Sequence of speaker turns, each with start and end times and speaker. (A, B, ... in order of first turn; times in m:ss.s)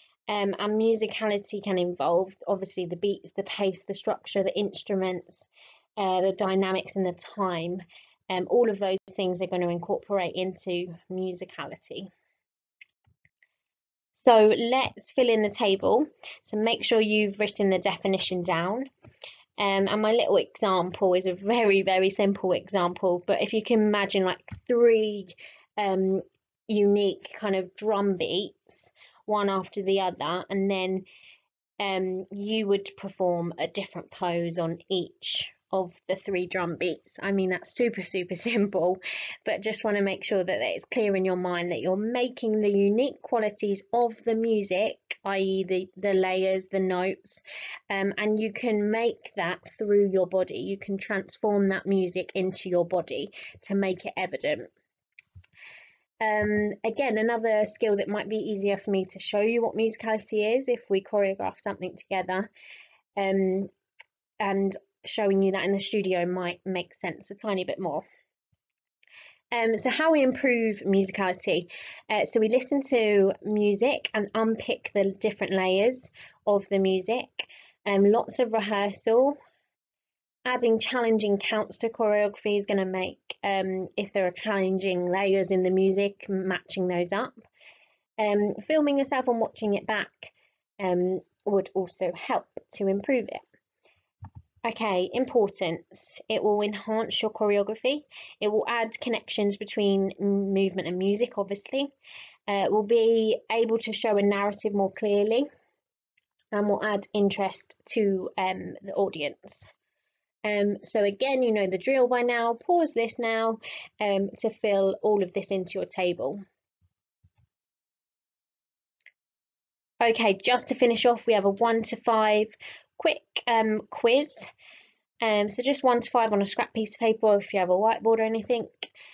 0:00.3-0:12.1 A
0:14.1-0:18.9 A
0:19.6-0:31.0 A
0:31.8-0:54.7 A
0:56.2-1:02.5 A
1:03.2-1:03.7 A
1:04.4-1:08.0 A
1:09.5-1:19.4 A
1:20.4-1:27.3 A
1:28.2-1:33.4 A
1:34.6-1:41.9 A
1:42.5-1:45.5 A
1:46.5-1:49.7 A
1:50.4-1:56.4 A
2:00.0-2:04.5 A
2:05.2-2:08.9 A